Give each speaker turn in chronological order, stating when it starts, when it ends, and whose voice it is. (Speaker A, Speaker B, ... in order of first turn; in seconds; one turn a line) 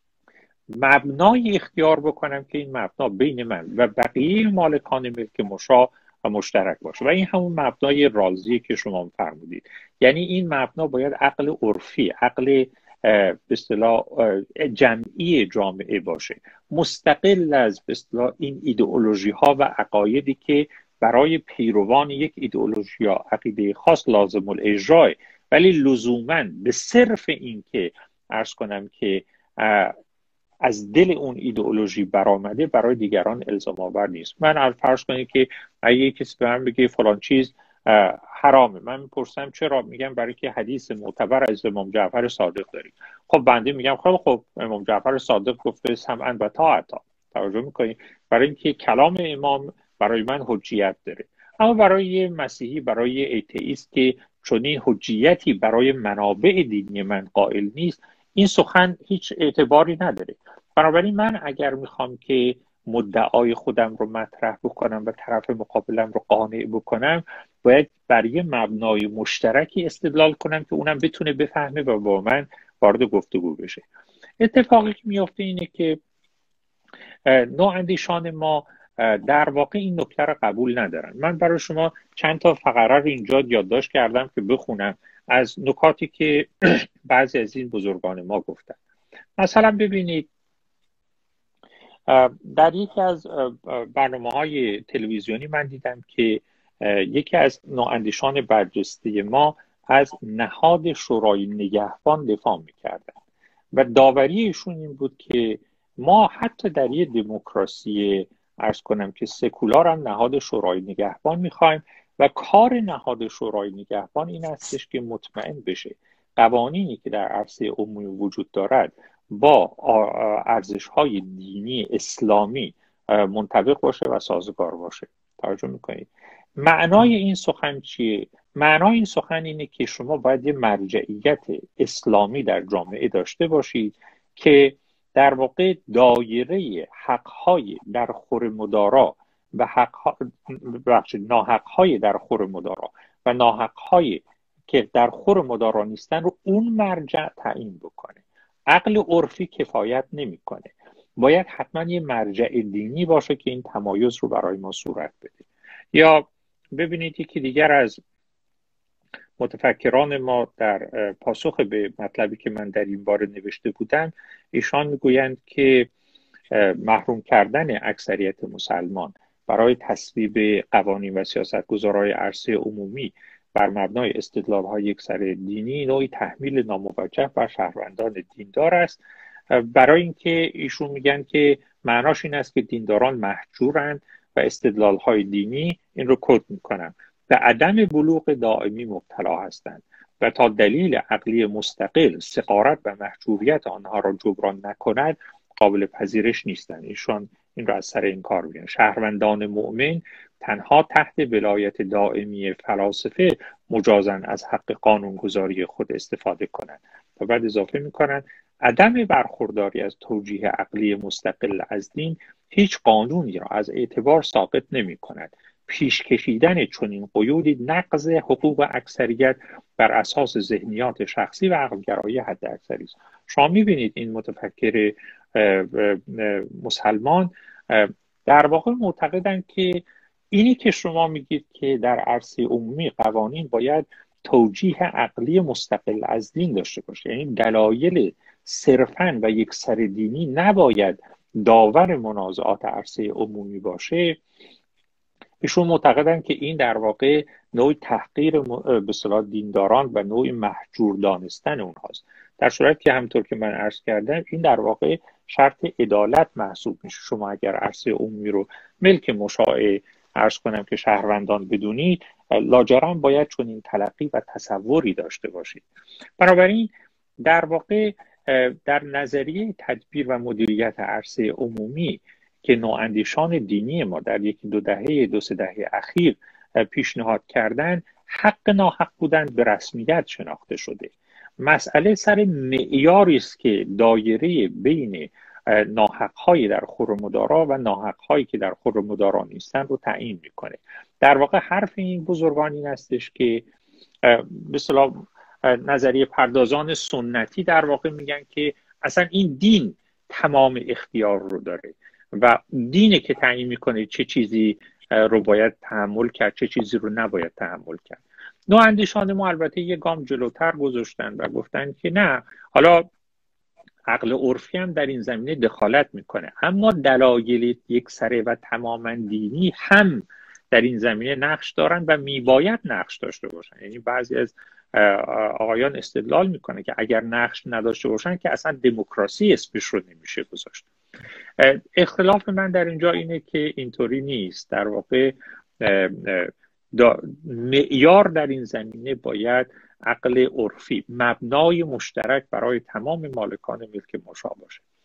Speaker A: 0.8-29.9
Speaker A: 30.6-73.8
Speaker A: 74.4-76.0
Speaker A: 77.2-88.8
Speaker A: 89.4-90.3
Speaker A: 92.1-103.1
Speaker A: 103.7-126.1
Speaker A: 126.6-158.0
Speaker A: 159.4-165.9
Speaker A: 166.5-179.0
Speaker A: 179.5-244.2
Speaker A: 245.4-265.6
Speaker A: 266.2-266.7
Speaker A: 267.2-293.4
Speaker A: 294.0-312.9
Speaker A: 313.9-330.7
Speaker A: 331.4-344.6